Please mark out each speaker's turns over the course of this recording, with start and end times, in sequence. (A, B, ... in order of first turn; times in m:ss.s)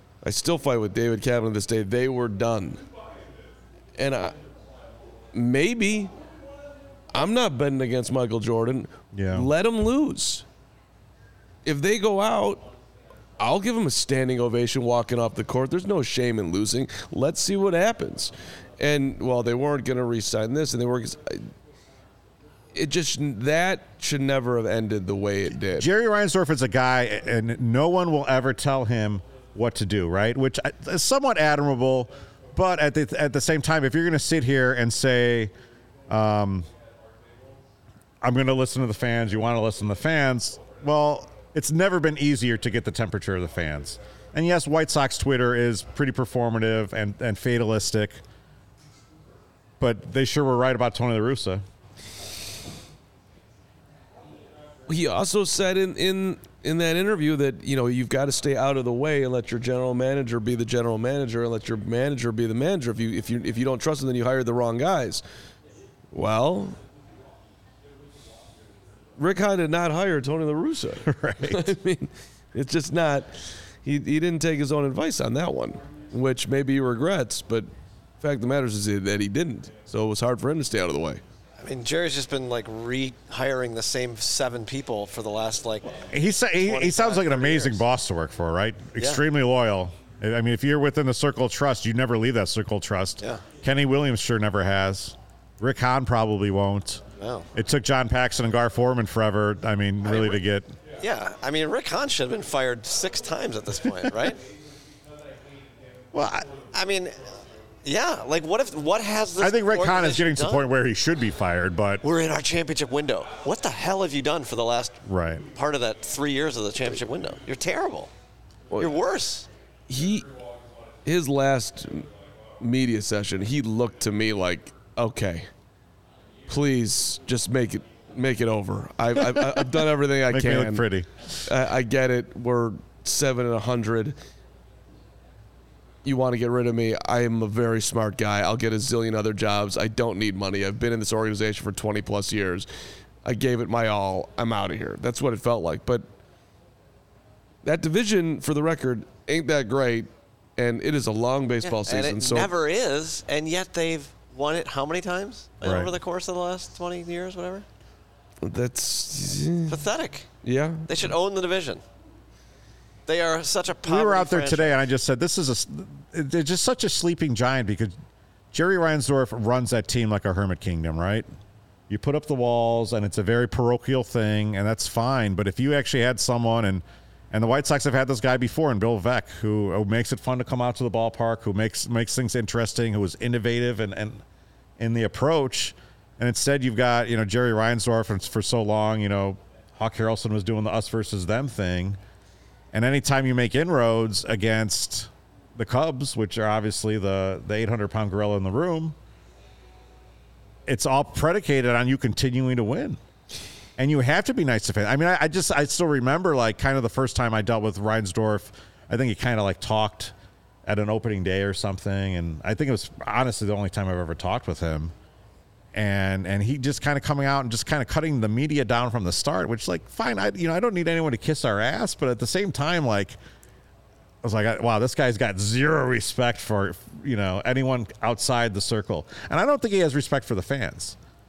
0:00.2-0:02.8 A
0:04.0-0:04.4 A
0:05.3-0:06.1 A
0:07.1-0:10.4 A
0:09.1-0:09.5 B
0:11.6-0:12.7 A
0:13.4-0:21.5 A
0:22.7-0:25.9 A
0:25.8-0:35.5 B
0:36.1-0:36.7 B
0:38.2-0:48.2 B
0:49.8-0:51.6 B
0:54.9-1:05.2 A
1:06.1-1:06.8 A
1:09.2-1:17.7 A
1:11.0-1:11.7 B
1:18.2-1:21.2 A
1:21.6-1:26.0 C
1:26.1-1:37.0 B
1:26.7-1:27.8 C
1:37.2-1:37.5 C
1:37.6-1:40.7 B
1:40.0-1:40.4 C
1:41.0-1:44.4 C
1:46.1-1:46.5 B
1:46.7-1:47.2 C
1:47.8-1:50.6 C
1:49.4-1:52.0 B
1:52.0-1:58.1 C
1:55.1-1:55.5 B
1:58.8-1:59.5 C
1:59.9-2:00.3 A
2:01.0-2:02.1 A
2:02.6-2:05.5 A
2:06.5-2:10.9 A
2:10.3-2:11.3 B
2:11.5-2:14.2 A
2:16.0-2:22.7 A
2:23.2-2:26.1 A
2:27.6-2:32.5 A
2:31.6-2:37.7 C
2:35.6-2:35.9 B
2:38.4-2:39.9 A
2:39.7-2:40.3 C
2:40.4-2:40.9 A
2:40.9-2:41.8 C
2:43.1-2:44.8 C
2:43.8-2:47.9 B
2:48.5-2:51.3 B
2:51.9-3:04.2 B
3:04.8-3:12.0 B
3:12.7-3:19.0 B
3:20.7-3:23.0 B
3:23.8-3:30.1 B
3:30.7-3:34.9 B
3:35.7-3:43.2 B
3:44.2-3:51.0 B